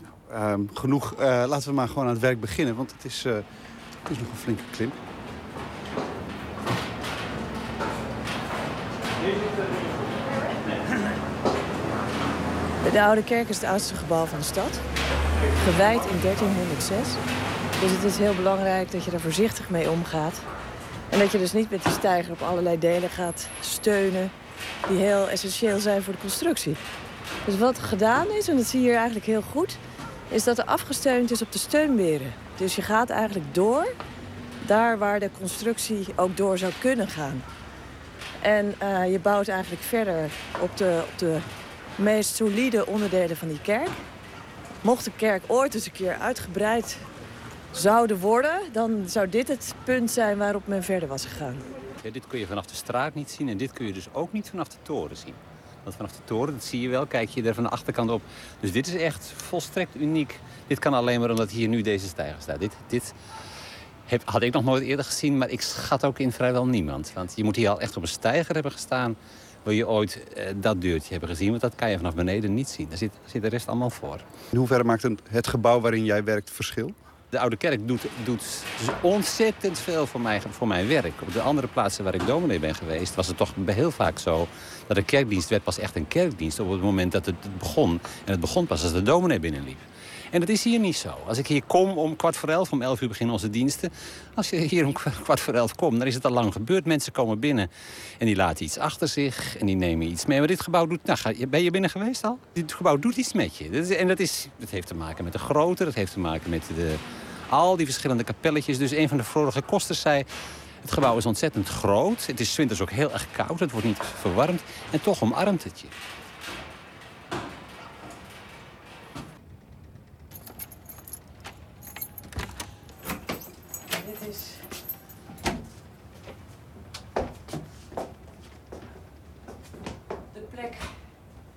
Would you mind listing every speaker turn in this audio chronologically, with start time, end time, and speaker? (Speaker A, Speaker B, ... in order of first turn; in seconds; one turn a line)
Speaker A: 0.3-3.5
Speaker A: 4.0-5.0
Speaker B: 12.8-14.8
Speaker B: 15.6-17.2
Speaker B: 17.8-20.4
Speaker B: 21.1-24.3
Speaker B: 24.9-26.8
Speaker B: 27.5-29.8
Speaker B: 30.3-34.0
Speaker B: 34.6-37.5
Speaker B: 38.4-41.5
Speaker B: 42.0-44.0
Speaker B: 44.8-47.0
Speaker B: 47.7-51.6
Speaker C: 52.0-63.1
Speaker C: 64.1-74.3
Speaker A: 74.5-77.0
Speaker C: 77.3-110.3
Speaker C: 110.8-115.9
Speaker B: 123.9-124.6
Speaker B: 130.3-130.8